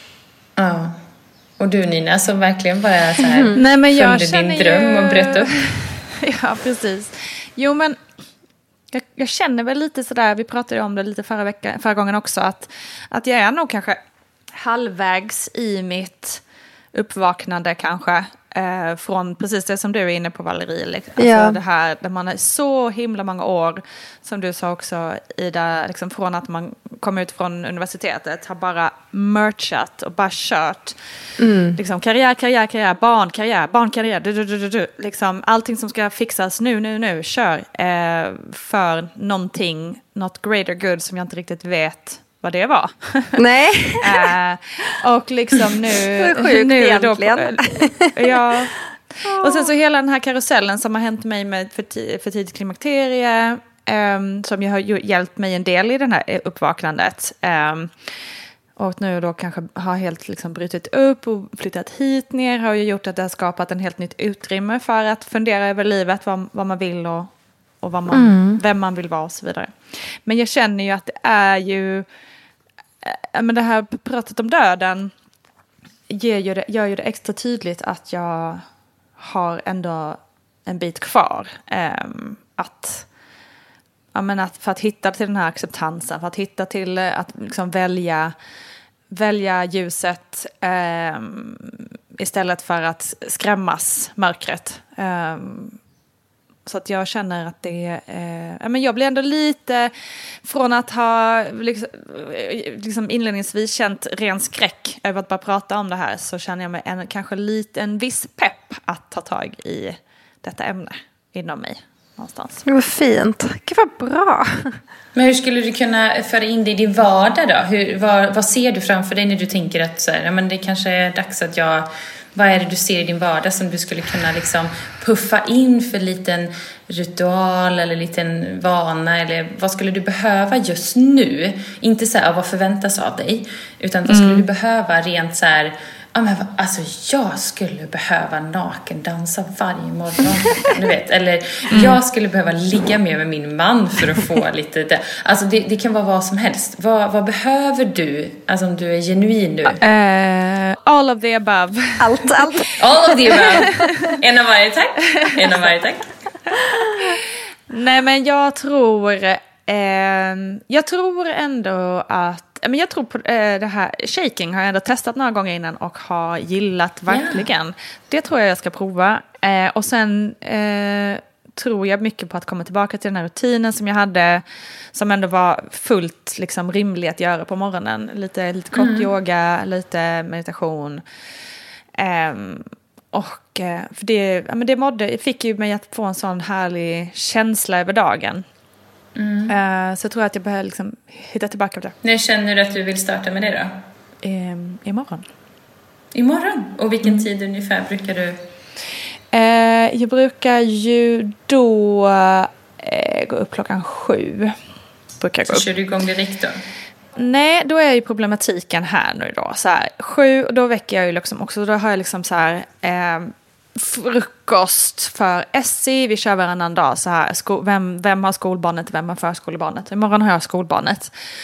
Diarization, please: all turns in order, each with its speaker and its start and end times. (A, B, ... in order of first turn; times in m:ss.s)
0:00.6-0:01.0 A
0:01.6-0:05.7 A
0:03.2-0:03.6 B
0:03.5-0:08.0 C
0:08.9-0:14.0 C
0:14.5-0:16.4 C
0:16.9-0:31.0 C
0:21.2-0:21.6 B
0:31.4-0:31.8 B
0:31.8-0:43.4 C
0:43.4-0:44.3 B
0:44.0-0:58.0 C
0:46.2-0:48.5 B
0:49.2-0:49.7 B
0:58.8-1:07.3 C
1:07.8-1:12.0 C
1:08.1-1:08.6 B
1:13.0-1:15.1 C
1:16.1-1:18.6 C
1:19.2-1:23.0 C
1:24.1-1:28.3 C
1:29.1-1:35.8 C
1:36.6-1:39.9 C
1:40.4-1:52.6 C
1:52.6-1:54.8 B
1:55.1-2:29.8 A
2:14.1-2:14.4 C
2:21.7-2:22.0 C
2:29.8-2:32.6 C
2:32.0-2:34.1 B
2:32.8-2:36.1 A
2:33.2-2:34.1 C
2:36.6-2:37.1 B
2:37.0-3:01.0 C
2:47.1-2:47.4 A
2:58.7-2:59.1 A
3:02.0-3:08.4 C
3:09.1-3:09.6 A
3:09.5-3:12.0 C
3:12.0-3:13.7 A
3:14.2-3:15.3 C
3:16.1-3:18.4 A
3:19.3-3:24.6 C
3:25.2-3:25.7 C
3:25.5-3:26.6 A
3:27.2-3:41.1 C